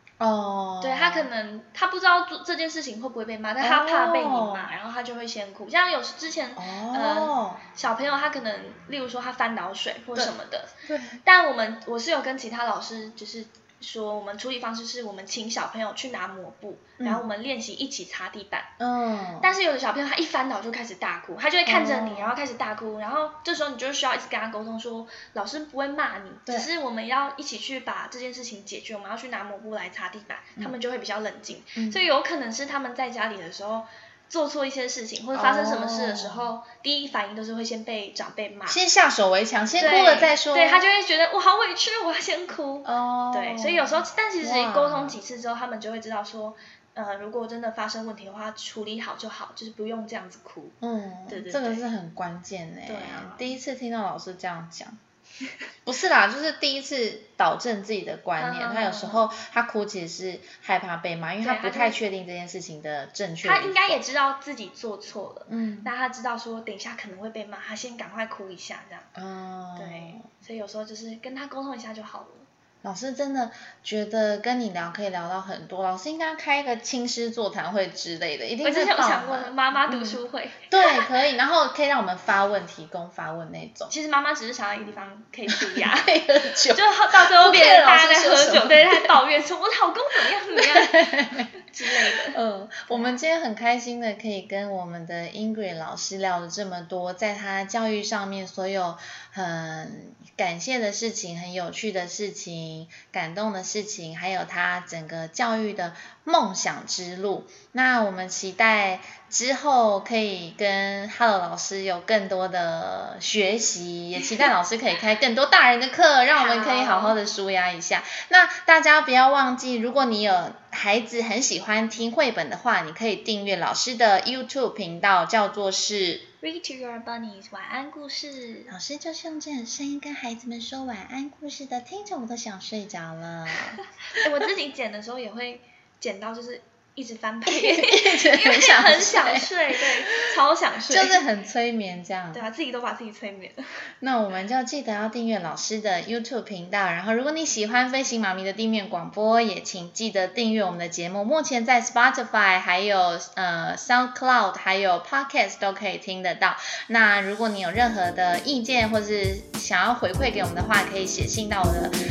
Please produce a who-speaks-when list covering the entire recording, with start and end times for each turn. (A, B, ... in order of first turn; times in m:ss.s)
0:00.2-0:01.3 A
0:00.8-0:10.7 B
0:03.6-0:04.7 A
0:06.6-0:07.6 A
0:10.8-0:11.2 A
0:11.2-0:18.7 B
0:18.8-0:19.5 A
0:19.4-0:38.8 B
0:21.6-0:22.4 A
0:31.8-0:32.0 A
0:35.3-0:36.5 A
0:38.7-0:40.8 A
0:39.8-0:50.8 B
0:42.8-0:45.2 A
0:50.8-0:55.0 A
0:51.3-0:51.8 B
0:52.8-0:53.5 B
0:55.8-1:04.0 A
0:58.4-0:59.2 B
1:01.4-1:02.0 B
1:03.4-1:09.1 B
1:05.5-1:05.9 A
1:09.1-1:10.2 A
1:09.8-1:12.5 B
1:12.8-1:23.9 A
1:18.6-1:21.0 B
1:23.9-1:26.1 B
1:25.5-1:29.2 A
1:26.7-1:33.2 B
1:30.6-1:31.5 A
1:32.1-2:06.2 A
1:56.3-1:57.2 B
2:06.4-2:08.7 B
2:08.7-2:13.8 A
2:14.1-2:21.2 B
2:17.4-2:19.9 A
2:20.9-2:22.4 A
2:22.3-2:23.6 B
2:24.0-2:41.9 A